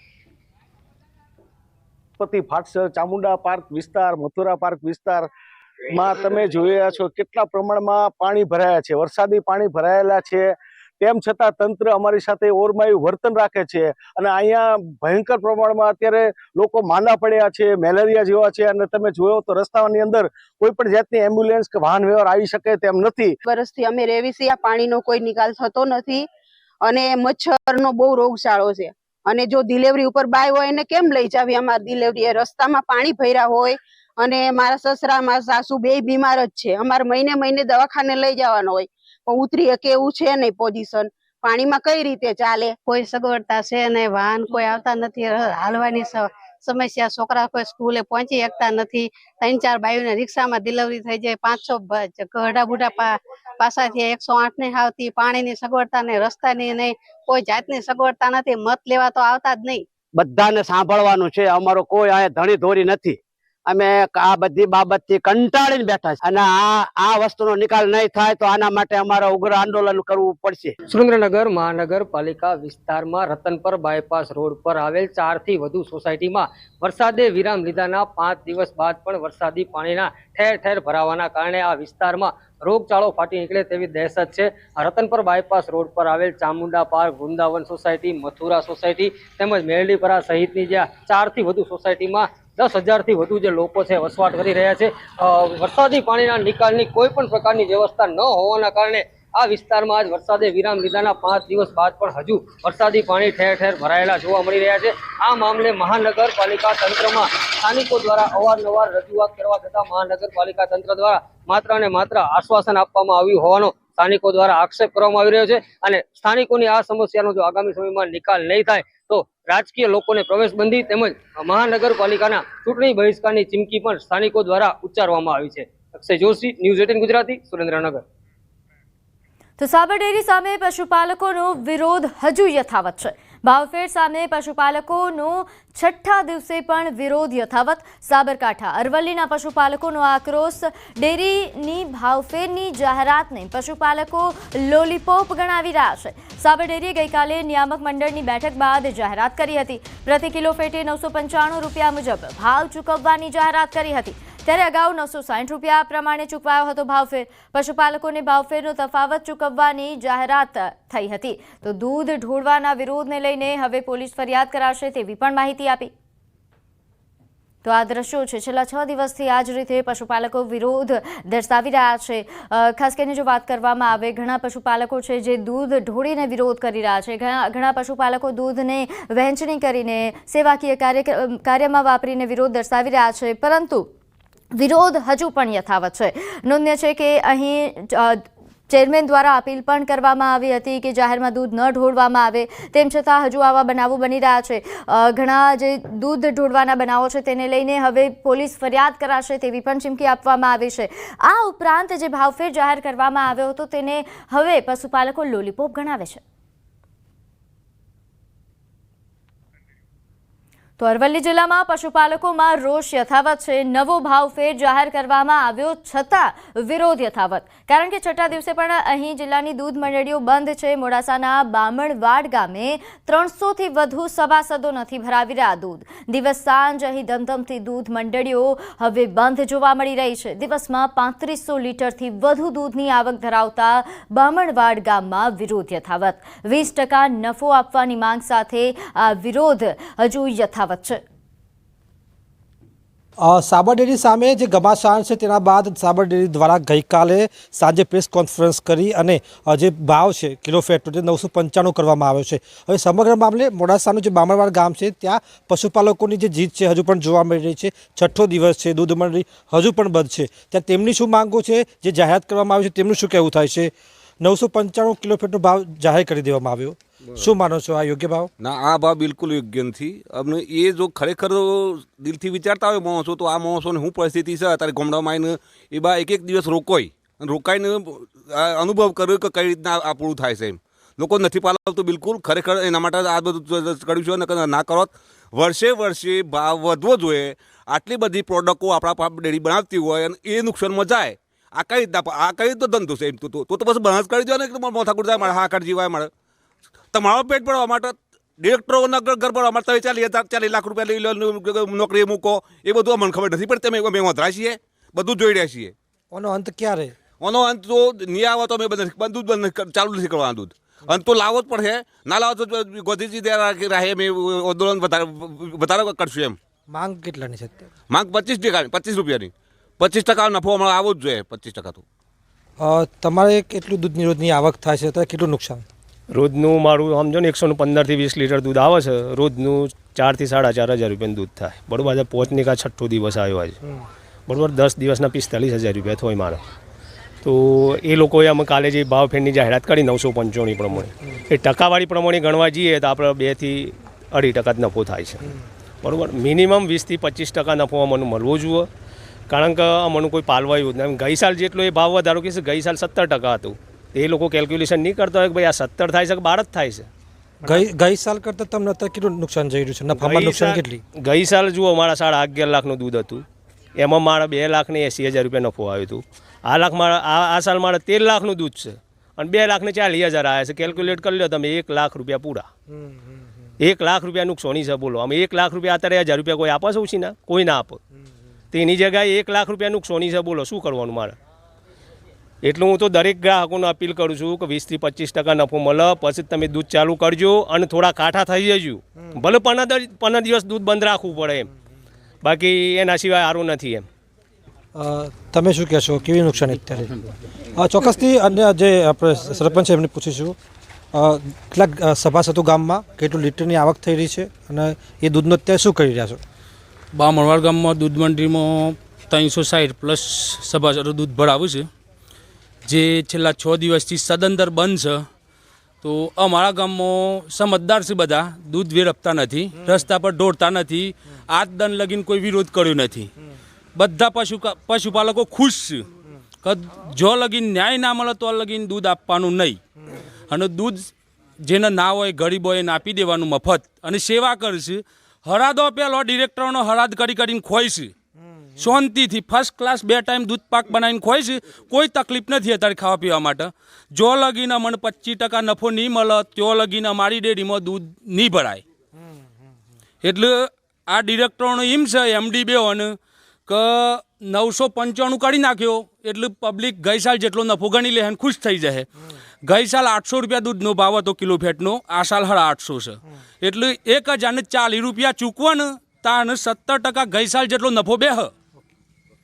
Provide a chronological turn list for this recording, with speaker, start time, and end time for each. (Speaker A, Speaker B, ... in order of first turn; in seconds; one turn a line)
Speaker A: 2.2-5.3
Speaker A: 5.9-10.5
Speaker A: 11.0-23.3
Speaker B: 23.4-26.3
Speaker B: 26.8-42.8
Speaker C: 42.9-59.8
Speaker D: 60.2-63.1
Speaker D: 63.8-66.4
Speaker D: 67.1-70.7
Speaker E: 70.9-128.0
Speaker F: 129.6-165.9
Speaker F: 167.6-183.8
Speaker F: 184.5-206.2
Speaker F: 210.8-241.0
Speaker G: 243.2-263.7
Speaker G: 264.2-268.3
Speaker H: 268.4-296.1
Speaker H: 296.9-305.7
Speaker G: 306.1-306.9
Speaker H: 307.2-316.4
Speaker G: 316.7-317.7
Speaker H: 317.9-321.8
Speaker G: 322.6-325.6
Speaker I: 326.1-333.6
Speaker I: 334.3-336.4
Speaker I: 337.2-345.3
Speaker I: 345.8-348.7
Speaker I: 349.3-356.9
Speaker G: 357.4-360.8
Speaker I: 359.9-363.2
Speaker I: 363.8-372.5
Speaker I: 373.6-377.8
Speaker I: 378.5-381.2
Speaker I: 382.4-391.5
Speaker I: 392.2-393.8
Speaker G: 394.7-396.9
Speaker G: 397.5-400.3
Speaker G: 400.9-406.2
Speaker J: 406.9-411.7
Speaker J: 412.6-415.0
Speaker J: 415.8-423.1
Speaker J: 423.8-425.9
Speaker J: 426.4-429.6
Speaker J: 430.3-430.9
Speaker J: 431.4-437.9
Speaker J: 438.6-448.6
Speaker J: 450.0-452.9
Speaker J: 453.5-458.9
Speaker J: 459.4-468.3